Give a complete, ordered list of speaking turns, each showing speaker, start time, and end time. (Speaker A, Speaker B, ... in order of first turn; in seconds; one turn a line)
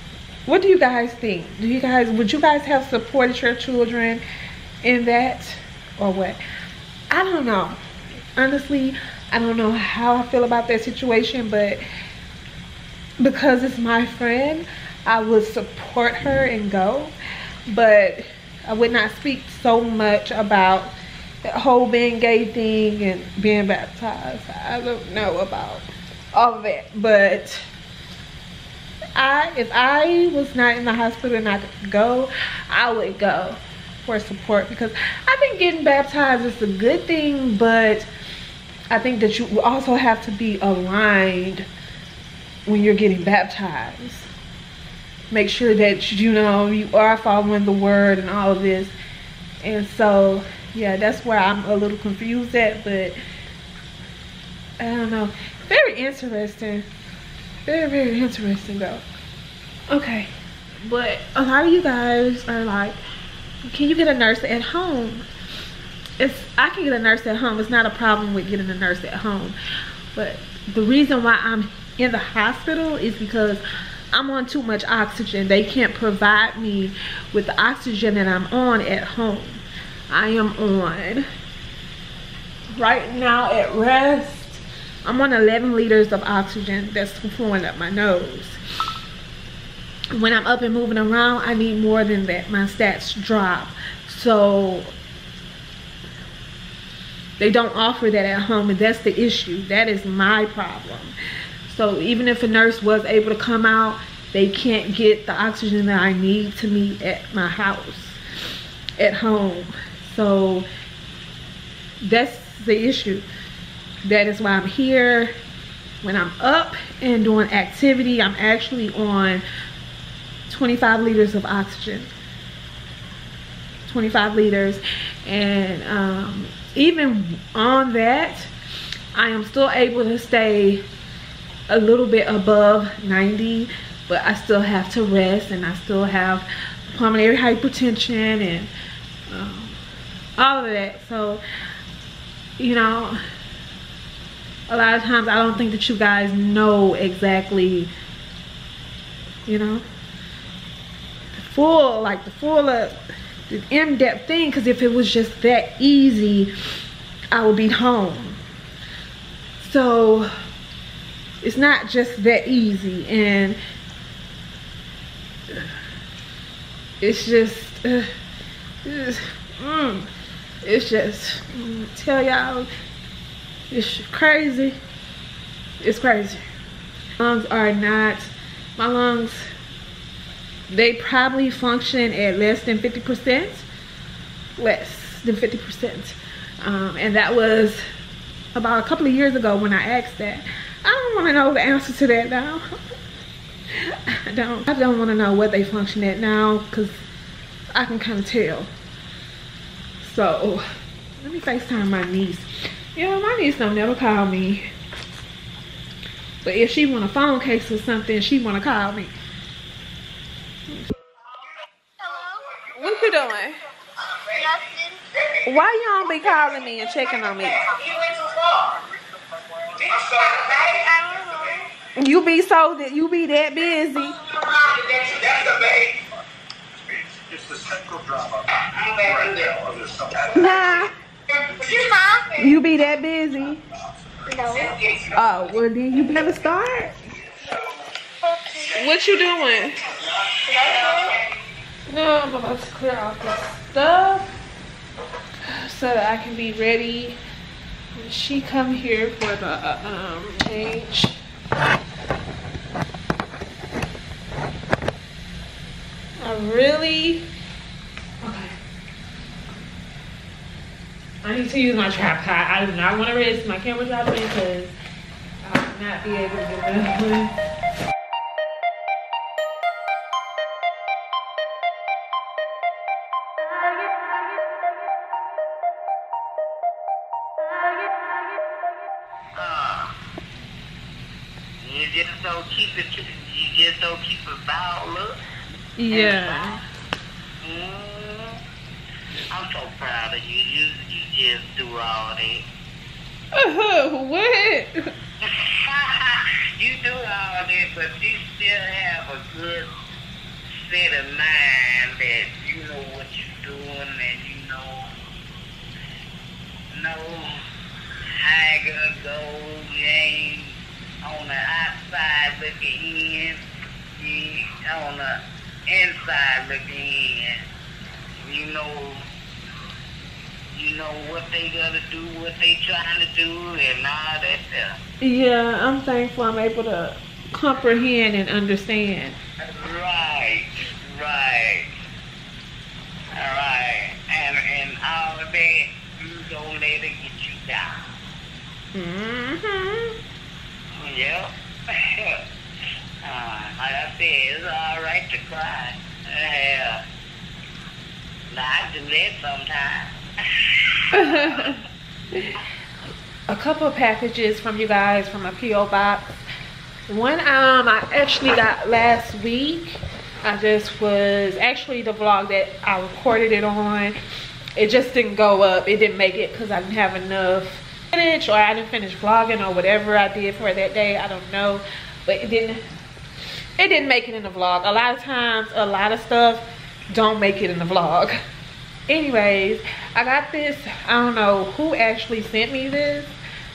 Speaker A: 0.5-4.2
Speaker A: 4.8-6.4
Speaker A: 7.1-7.8
Speaker A: 8.3-11.8
Speaker A: 13.2-17.1
Speaker A: 17.7-27.6
Speaker A: 29.1-38.1
Speaker A: 38.9-41.7
Speaker A: 42.6-44.3
Speaker A: 45.3-48.9
Speaker A: 49.6-53.1
Speaker A: 54.8-56.9
Speaker A: 57.6-59.0
Speaker A: 59.9-60.3
Speaker A: 60.8-63.0
Speaker A: 63.6-65.2
Speaker A: 66.2-69.5
Speaker A: 70.1-73.6
Speaker A: 74.1-81.3
Speaker A: 82.8-88.6
Speaker A: 90.1-94.9
Speaker A: 97.4-101.1
Speaker A: 101.7-108.2
Speaker A: 109.0-110.7
Speaker A: 112.0-113.2
Speaker A: 114.0-115.3
Speaker A: 116.0-119.4
Speaker A: 120.5-122.1
Speaker A: 123.8-128.5
Speaker A: 129.1-130.8
Speaker A: 131.7-138.7
Speaker A: 139.3-139.8
Speaker A: 140.4-141.4
Speaker A: 142.6-143.2
Speaker A: 144.7-147.9
Speaker A: 149.5-149.8
Speaker A: 151.3-156.5
Speaker A: 157.3-158.4
Speaker A: 159.6-160.3
Speaker A: 161.4-163.6
Speaker A: 167.0-168.1
Speaker A: 168.8-170.1
Speaker A: 170.6-172.7
Speaker A: 173.7-174.8
Speaker A: 175.8-176.4
Speaker A: 177.2-179.5
Speaker A: 180.7-183.7
Speaker A: 184.6-187.8
Speaker A: 188.5-192.7
Speaker A: 193.7-197.0
Speaker A: 197.7-198.7
Speaker A: 200.0-200.7
Speaker A: 201.2-204.7
Speaker A: 206.4-209.1
Speaker B: 212.1-212.3
Speaker A: 212.8-213.6
Speaker B: 214.3-215.0
Speaker A: 215.4-217.7
Speaker C: 217.9-218.3
Speaker C: 219.8-220.1
Speaker B: 220.4-221.5
Speaker A: 221.9-224.2
Speaker C: 225.2-225.7
Speaker C: 227.3-228.2
Speaker D: 228.7-229.7
Speaker A: 230.3-230.9
Speaker A: 232.3-233.6
Speaker B: 234.3-234.8
Speaker A: 235.1-236.9
Speaker A: 238.7-239.8
Speaker B: 240.5-241.1
Speaker A: 241.9-244.3
Speaker A: 245.5-247.2
Speaker A: 247.9-251.2
Speaker A: 256.2-257.2
Speaker A: 258.2-258.6
Speaker A: 261.2-264.7
Speaker A: 265.4-267.3
Speaker D: 279.4-279.9
Speaker D: 281.6-285.2
Speaker A: 285.8-286.6
Speaker D: 285.9-286.6
Speaker D: 287.4-288.4
Speaker D: 289.3-292.4
Speaker A: 293.3-294.9
Speaker D: 295.2-299.7
Speaker D: 300.6-304.9
Speaker D: 306.7-307.4
Speaker D: 308.2-313.4
Speaker D: 314.0-317.4
Speaker D: 318.2-319.0
Speaker D: 320.5-324.7
Speaker A: 325.0-329.2
Speaker D: 329.4-331.7
Speaker D: 333.1-337.7
Speaker A: 338.7-339.9
Speaker D: 340.8-342.2
Speaker D: 343.0-346.8
Speaker D: 348.3-349.9
Speaker D: 350.8-351.5
Speaker A: 350.9-351.6
Speaker A: 352.1-352.4
Speaker A: 353.3-356.1
Speaker A: 356.9-363.9
Speaker A: 364.6-372.6
Speaker A: 373.6-378.2
Speaker A: 378.9-383.1